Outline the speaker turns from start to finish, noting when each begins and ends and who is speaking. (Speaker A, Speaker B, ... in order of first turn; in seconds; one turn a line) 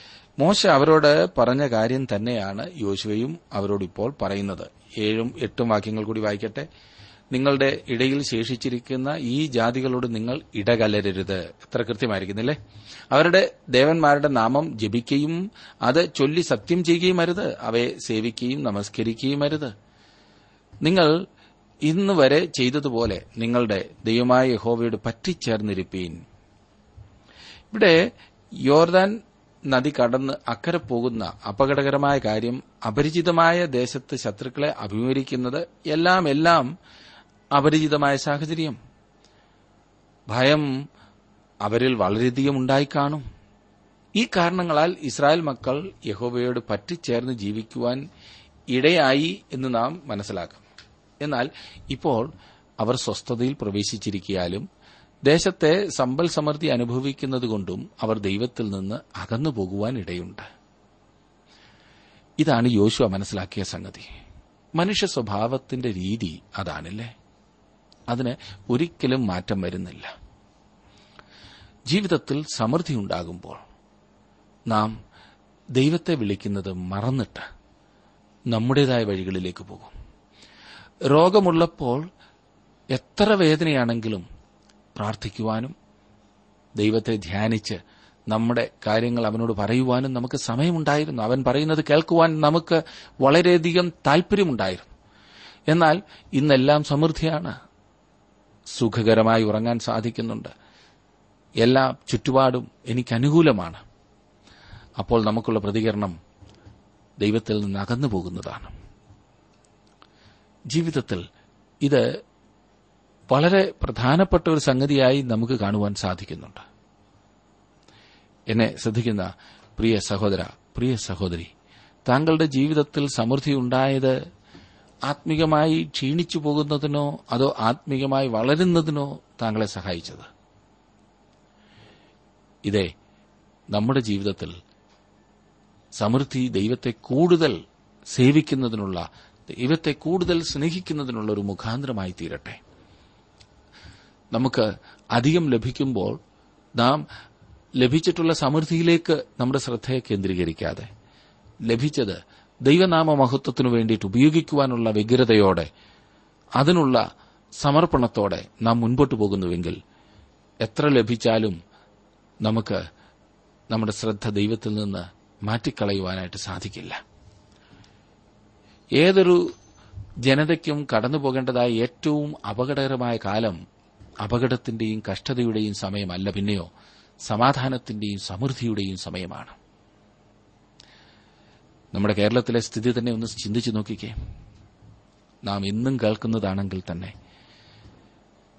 Speaker A: 0.4-6.7
Speaker A: 7.3-12.6
Speaker A: 13.1-19.7
Speaker A: 20.8-21.1
Speaker A: 21.9-26.2
Speaker A: 27.7-28.0
Speaker A: 28.7-29.2
Speaker A: 29.7-36.7
Speaker A: 37.5-38.8
Speaker A: 40.3-40.7
Speaker A: 41.6-43.2
Speaker A: 44.2-48.0
Speaker A: 48.7-50.6
Speaker A: 51.2-52.3
Speaker A: 52.8-54.6
Speaker A: 55.3-60.5
Speaker A: 62.4-64.1
Speaker A: 64.8-67.1
Speaker A: 68.1-70.1
Speaker A: 71.9-73.6
Speaker A: 74.7-74.9
Speaker A: 75.8-77.4
Speaker A: 78.5-79.9
Speaker A: 81.1-82.0
Speaker A: 82.9-84.2
Speaker A: 85.0-85.7
Speaker A: 86.8-87.8
Speaker A: 88.3-94.9
Speaker A: 95.7-97.5
Speaker A: 98.8-100.5
Speaker A: 101.6-103.8
Speaker A: 105.0-106.2
Speaker A: 107.2-108.7
Speaker A: 110.7-111.2
Speaker A: 113.3-116.6
Speaker A: 118.5-121.5
Speaker A: 122.1-124.2
Speaker A: 125.1-130.3
Speaker A: 133.7-134.6
Speaker A: 136.0-137.6
Speaker A: 138.1-142.6
Speaker A: 144.3-146.2
Speaker A: 147.8-150.9
Speaker A: 151.7-155.7
Speaker A: 156.6-157.0
Speaker A: 157.6-159.8
Speaker A: 160.6-161.6
Speaker A: 162.4-162.8
Speaker A: 163.7-167.0
Speaker A: 169.0-169.4
Speaker A: 170.2-173.6
Speaker A: 174.2-176.7
Speaker A: 177.3-179.6
Speaker A: 181.9-184.1
Speaker A: 185.5-187.1